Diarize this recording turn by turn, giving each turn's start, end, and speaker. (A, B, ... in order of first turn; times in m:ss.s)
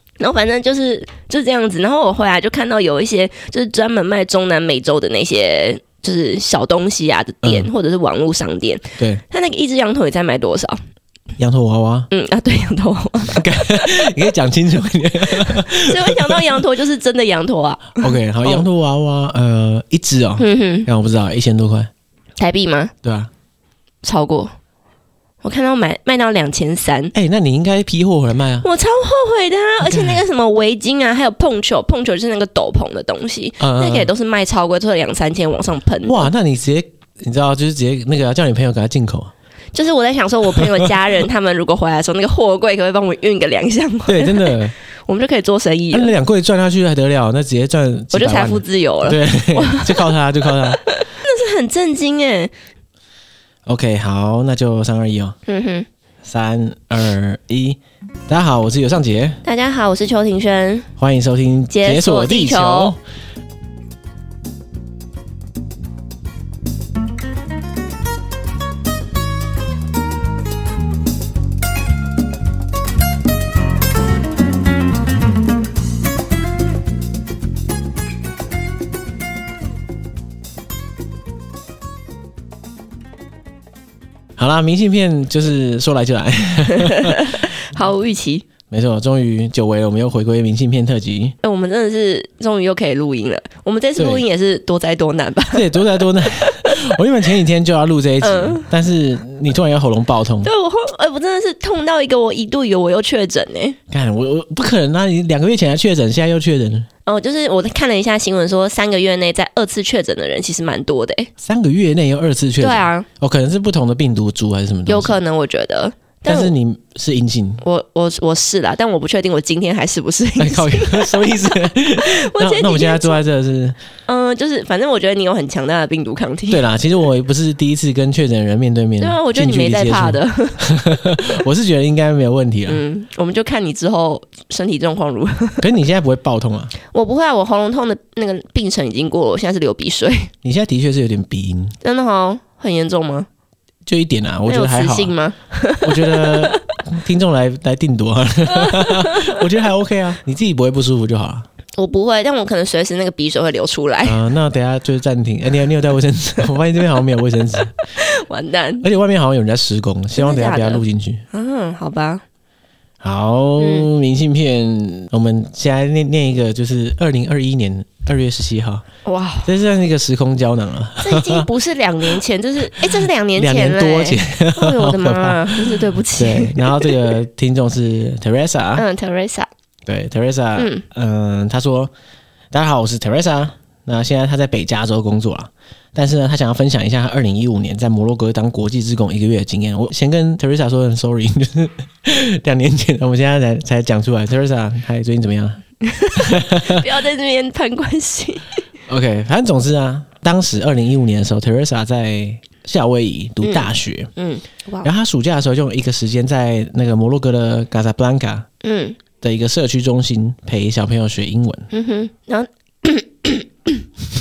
0:00.2-0:10.8 A
0:07.4-0:07.7 B
0:11.4-0:12.1 B
0:12.1-0:13.7 A
0:13.3-0:16.6 B
0:15.5-0:18.6 A
0:18.0-0:21.9 B
0:20.4-0:20.9 A
0:22.4-0:22.9 A
0:23.0-0:23.3 B
0:24.0-0:24.5 A
0:25.4-0:27.1 A
0:27.1-0:28.7 B
0:28.6-0:36.3 A
0:29.8-0:30.2 B
0:33.6-0:34.1 B
0:36.1-0:39.3 B
0:39.7-0:46.1 A
0:40.6-0:40.8 B
0:44.1-0:44.7 B
0:45.9-0:50.8 B
0:48.1-0:50.1 A
0:50.9-0:52.5 A
0:53.7-0:55.4 B
0:55.5-0:55.9 A
0:56.2-0:59.4 B
0:59.4-1:00.9 A
1:01.0-1:03.0 B
1:01.7-1:03.0 A
1:24.4-1:27.4 B
1:26.7-1:28.4 A
1:28.7-1:31.4 B
1:31.4-1:36.9 A
1:34.0-1:34.2 B
1:35.5-1:40.5 B
1:38.2-1:38.7 A
1:40.4-1:43.8 A
1:43.9-1:46.9 B
1:47.1-1:51.3 A
1:51.4-1:55.2 B
1:52.6-1:53.1 A
1:54.9-1:56.5 A
1:56.3-1:57.6 B
1:57.6-2:03.2 A
2:00.4-2:03.8 B
2:04.1-2:06.7 A
2:06.5-2:12.8 B
2:09.0-2:10.8 A
2:12.7-2:15.6 A
2:15.6-2:16.7 B
2:16.9-2:20.3 A
2:20.4-2:21.8 B
2:21.8-2:23.3 A
2:23.9-2:25.1 B
2:24.5-2:26.6 A
2:25.8-2:31.5 B
2:28.5-2:29.4 A
2:31.8-2:34.2 A
2:34.0-2:37.8 B
2:38.0-2:38.8 A
2:38.8-2:41.2 B
2:40.2-2:42.2 A
2:43.0-2:48.8 B
2:43.6-2:43.9 A
2:49.0-2:49.5 A
2:49.4-2:51.5 B
2:51.0-2:57.2 A
2:52.7-2:58.8 B
2:58.8-2:59.5 A
2:59.9-3:01.9 B
3:00.6-3:00.8 A
3:02.5-3:16.8 B
3:15.8-3:18.5 A
3:18.9-3:24.1 B
3:23.4-3:24.9 A
3:24.8-3:28.5 B
3:28.6-3:29.0 A
3:29.2-3:31.7 B
3:31.7-3:33.8 A